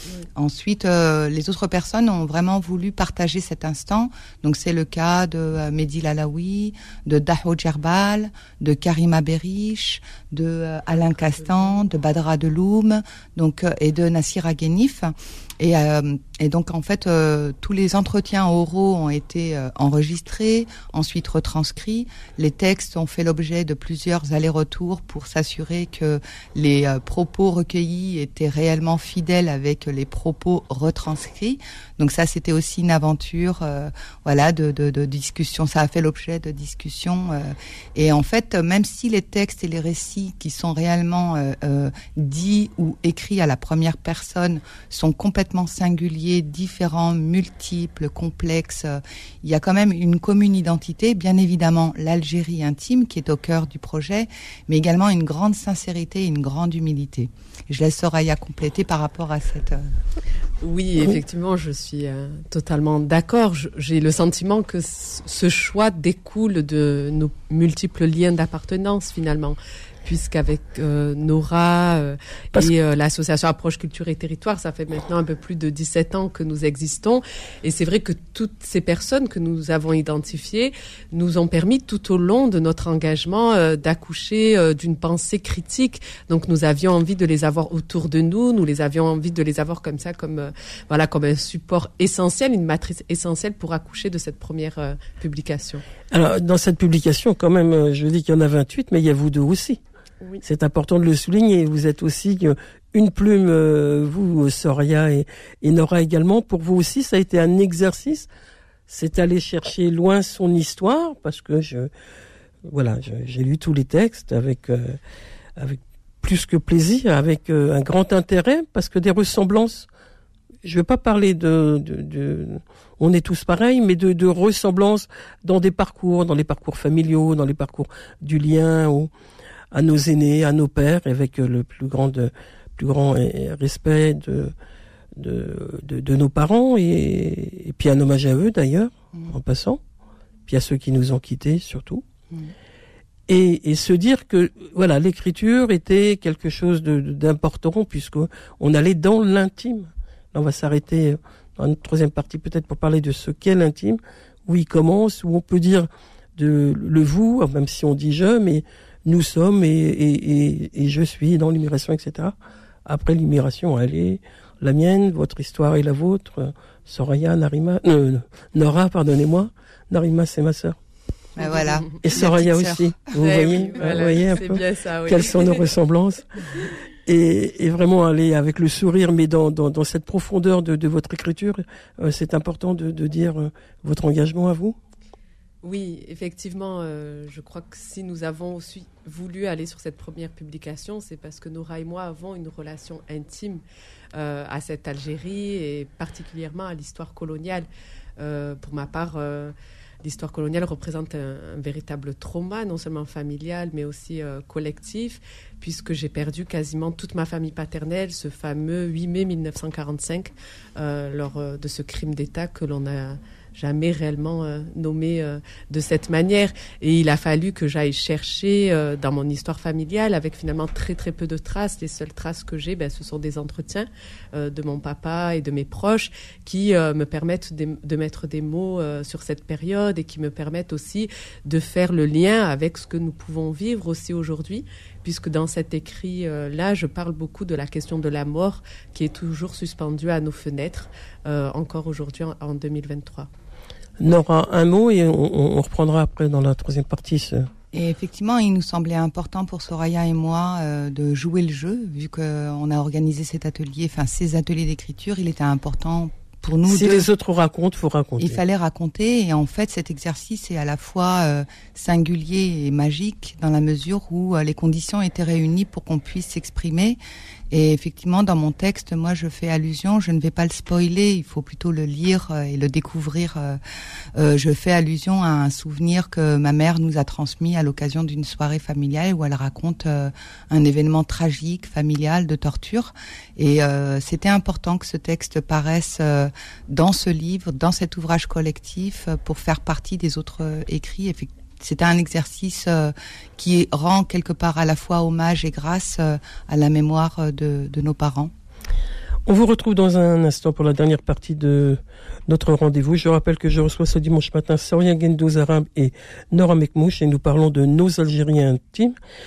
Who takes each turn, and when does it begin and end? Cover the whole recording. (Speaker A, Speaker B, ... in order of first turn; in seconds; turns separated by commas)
Speaker A: 0.3-59.9, Speaker B: 60.6-95.8, Speaker C: 96.1-99.8, Speaker C: 100.4-108.3, Speaker C: 108.9-111.9, Speaker C: 112.7-115.0, Speaker C: 115.6-119.9, Speaker C: 120.6-129.1, Speaker C: 129.7-134.5, Speaker C: 135.2-139.8, Speaker C: 140.5-142.0, Speaker C: 143.3-170.8, Speaker A: 171.4-172.9, Speaker C: 172.0-176.4, Speaker B: 173.2-175.6, Speaker C: 177.1-184.8, Speaker B: 185.6-193.6, Speaker B: 194.2-197.7, Speaker B: 198.2-243.3, Speaker C: 244.0-247.5, Speaker A: 247.7-257.1, Speaker C: 256.7-258.4, Speaker A: 258.2-267.0, Speaker A: 267.5-273.6, Speaker A: 274.2-298.3, Speaker C: 299.3-308.9